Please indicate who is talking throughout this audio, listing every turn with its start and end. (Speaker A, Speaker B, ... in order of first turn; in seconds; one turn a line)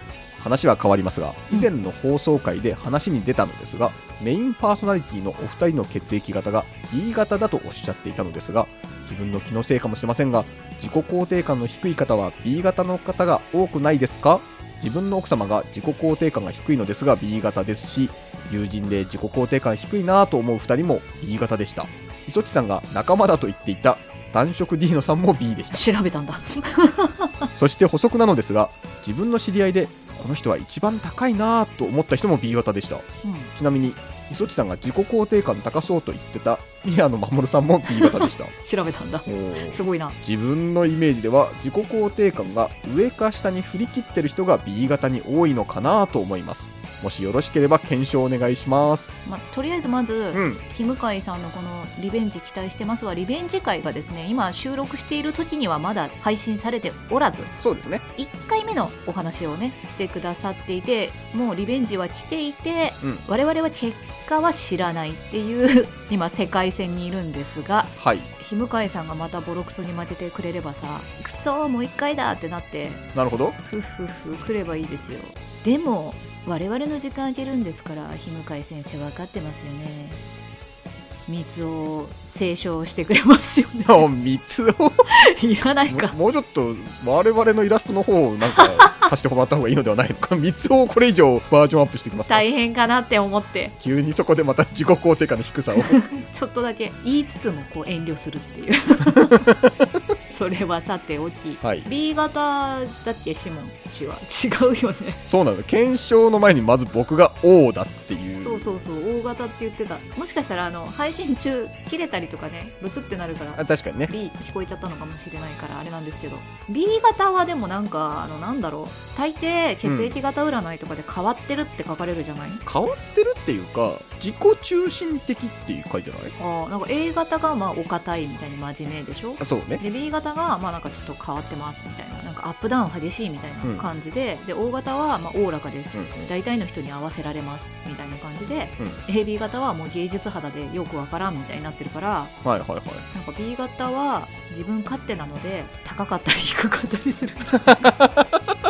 Speaker A: 0.4-25.9
Speaker B: 25.7-27.5
Speaker A: 27.5-38.5
Speaker B: 33.2-33.5
Speaker B: 37.9-40.1
Speaker A: 39.2-49.1
Speaker B: 49.2-57.5
Speaker A: 50.3-50.6
Speaker A: 57.6-58.0
Speaker B: 58.2-73.0
Speaker A: 68.0-68.3
Speaker A: 73.1-73.6
Speaker B: 73.7-80.2
Speaker B: 81.3-84.1
Speaker A: 83.8-85.2
Speaker B: 85.1-86.2
Speaker A: 85.9-92.4
Speaker B: 88.5-89.0
Speaker B: 92.2-93.7
Speaker A: 93.8-96.0
Speaker B: 95.8-99.5
Speaker A: 99.1-99.7
Speaker B: 100.3-105.2
Speaker A: 101.6-101.9
Speaker A: 105.2-108.8
Speaker B: 108.4-122.6
Speaker A: 113.6-114.1
Speaker A: 119.8-120.1
Speaker A: 122.6-126.3
Speaker B: 126.4-142.3
Speaker A: 129.4-129.8
Speaker A: 135.9-136.3
Speaker A: 142.4-143.1
Speaker B: 143.1-147.9
Speaker A: 147.5-148.4